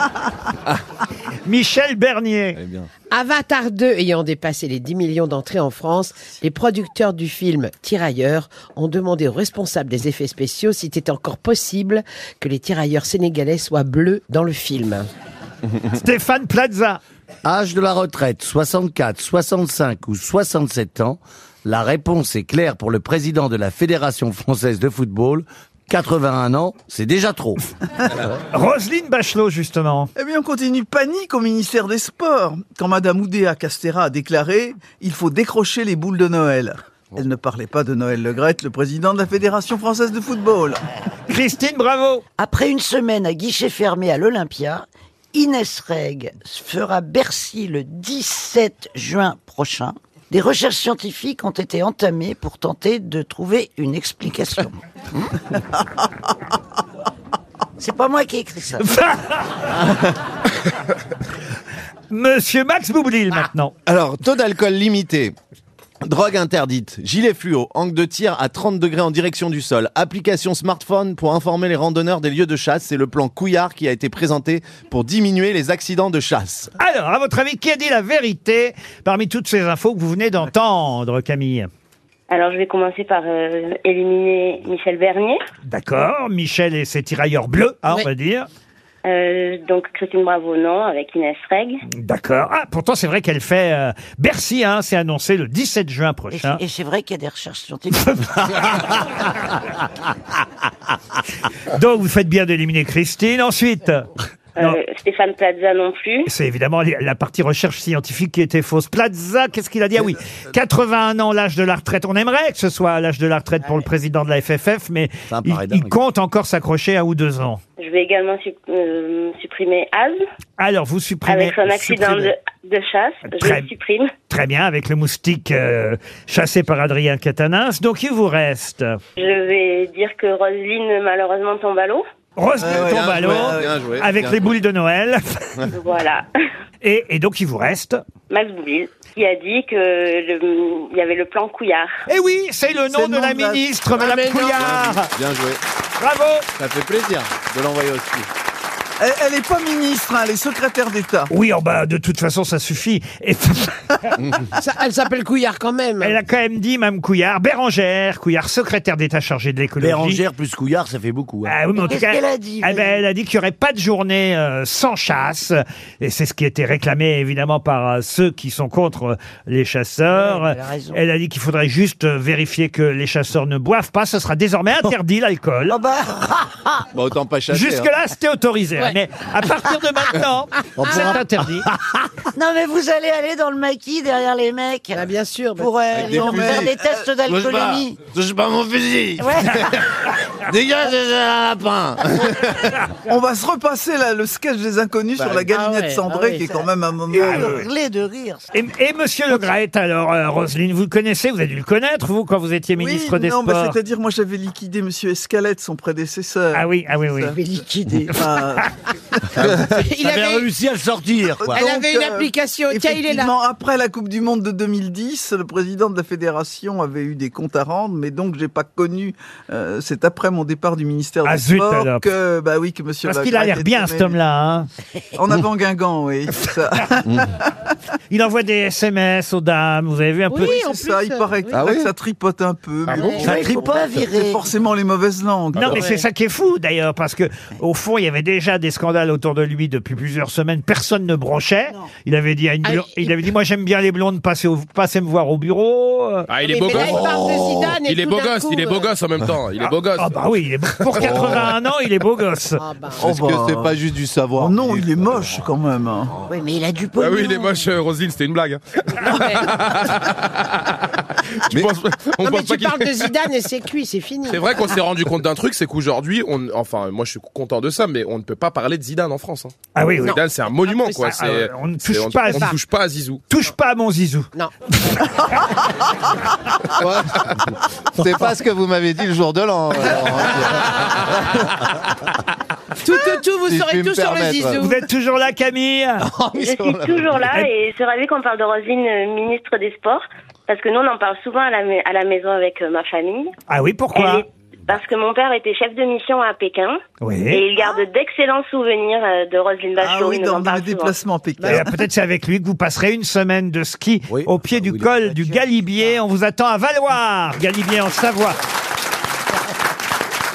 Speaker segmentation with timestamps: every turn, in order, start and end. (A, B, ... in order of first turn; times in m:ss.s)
0:01.5-0:02.6 A
0:02.6-0:02.9 B
0:03.1-0:15.1 C
0:15.8-0:17.0 A
0:17.4-0:27.6 D
0:28.5-0:30.1 A
0:30.2-0:40.8 E
0:41.3-0:42.2 A
0:42.4-0:55.3 F
0:57.8-0:58.8 F
0:58.8-0:59.6 A
1:02.1-1:03.8 A
1:03.9-1:05.4 B
1:06.0-1:16.7 B
1:16.8-1:21.7 A
1:22.3-1:25.4 G
1:25.7-1:28.5 A
1:29.1-1:31.8 G
1:32.0-1:36.6 A
1:36.3-1:38.4 F
1:38.2-1:39.0 A
1:41.7-1:44.1 A
1:44.6-1:46.3 G
1:46.3-1:57.6 A
1:55.3-1:56.0 D
1:57.8-2:00.2 G
2:00.6-2:02.3 A
2:01.3-2:04.1 G
2:03.4-2:03.7 A
2:04.3-2:09.0 A
2:09.2-2:12.0 G
2:12.4-2:15.7 A
2:12.6-2:13.8 E
2:12.6-2:14.6 B
2:15.7-2:16.3 G
2:16.8-2:18.0 A
2:18.3-2:21.9 G
2:22.1-2:25.1 A
2:22.9-2:23.6 E
2:24.0-2:24.8 C
2:24.6-2:25.6 B
2:26.0-2:26.5 A
2:26.6-2:28.3 B
2:29.0-2:31.3 E
2:31.3-2:34.1 A
2:34.6-2:36.2 C
2:36.0-2:40.2 A
2:39.8-2:41.6 D
2:41.5-2:55.8 A
2:41.8-2:43.0 F
2:50.1-2:51.0 F
2:55.7-2:56.8 F
2:56.9-2:57.9 B
2:57.5-3:01.7 A
3:00.8-3:02.0 D
3:02.4-3:05.1 F
3:04.9-3:06.3 C
3:05.6-3:08.0 F
3:05.9-3:07.1 E
3:06.0-3:10.0 B
3:09.2-3:09.6 F
3:10.5-3:12.7 B
3:13.1-3:17.6 E
3:15.2-3:15.4 B
3:15.5-3:16.6 C
3:17.2-3:17.6 B
3:17.2-3:17.7 A
3:17.3-3:18.5 F
3:18.5-3:23.8 A
3:22.8-3:29.5 E
3:26.5-3:27.4 A
3:27.4-3:28.2 F
3:28.2-3:28.6 A
3:29.4-3:30.5 C
3:30.0-3:31.7 D
3:31.4-3:44.2 E
3:31.5-3:33.3 C
3:41.2-3:42.1 A
3:43.1-3:44.7 A
3:45.2-3:47.5 E
3:48.1-3:50.6 A
3:50.3-3:51.8 C
3:50.4-3:55.8 E
3:51.6-3:51.9 B
3:52.9-3:53.2 H
3:52.9-3:53.4 C
3:53.2-3:53.8 B
3:53.3-3:54.4 F
3:55.6-4:06.3 A
3:55.7-3:56.0 C
4:02.6-4:03.2 C
4:06.3-4:11.5 H
4:06.4-4:08.9 C
4:10.0-4:12.6 A
4:11.1-4:11.4 B
4:12.6-4:13.1 C
4:13.0-4:13.8 E
4:13.0-4:14.9 B
4:14.4-4:16.2 E
4:16.2-4:17.5 F
4:17.0-4:20.9 H
4:19.1-4:19.5 C
4:21.5-4:23.2 H
4:22.2-4:24.5 C
4:24.3-4:33.2 H
4:29.8-4:30.2 A
4:30.0-4:31.1 C
4:31.1-4:32.6 A
4:33.3-4:35.1 A
4:38.0-4:41.1 B
4:42.8-4:44.8 C
4:43.5-4:44.6 B
4:44.6-4:46.0 A
4:46.0-4:47.4 B
4:46.3-4:53.3 G
4:53.5-4:54.2 A
4:54.0-4:56.8 G
4:57.0-4:57.5 A
4:57.3-5:00.9 G
4:59.8-5:01.7 E
5:01.4-5:01.7 C
5:01.4-5:08.4 A
5:04.1-5:04.9 D
5:05.2-5:06.0 C